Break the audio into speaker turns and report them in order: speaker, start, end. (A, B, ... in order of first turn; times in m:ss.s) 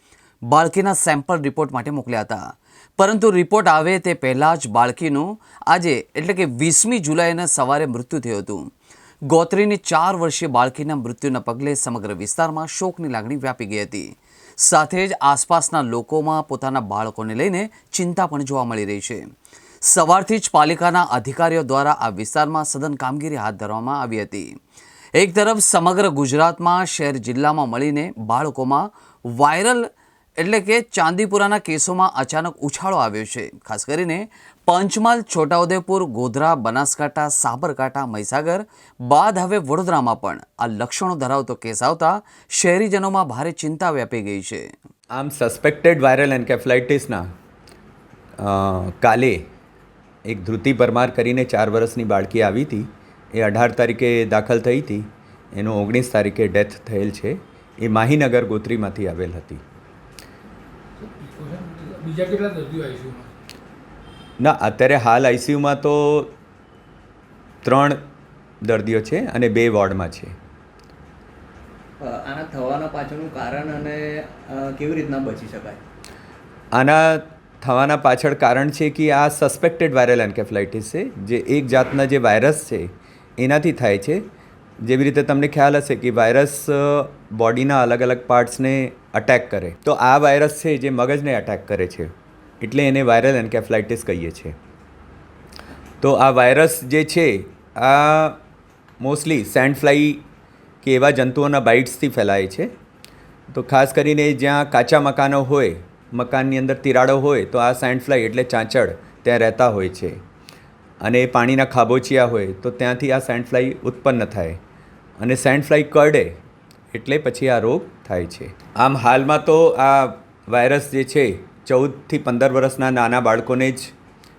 0:00.5-0:02.4 A
0:03.0-0:08.7 A
0:09.3-0:19.2 A
0:19.8-0:24.5 A
0:25.2-0:29.9 A
0:30.4-0:44.7 A
0:45.1-0:47.2 B
0:48.4-0:49.4 B
0:50.3-0:59.6 B
1:01.0-1:03.3 C
1:04.4-1:06.3 B
1:07.6-1:08.0 B
1:08.6-1:10.3 B
1:12.0-1:15.8 D
1:16.7-1:22.9 B
1:23.4-1:24.2 B
1:24.8-1:32.1 B
1:32.6-1:34.6 B
1:36.0-1:38.4 B
1:39.0-1:40.2 B
1:40.8-1:42.7 B
1:43.5-1:50.2 B
1:51.0-1:54.6 B
1:55.2-1:56.4 B
1:56.9-2:03.9 B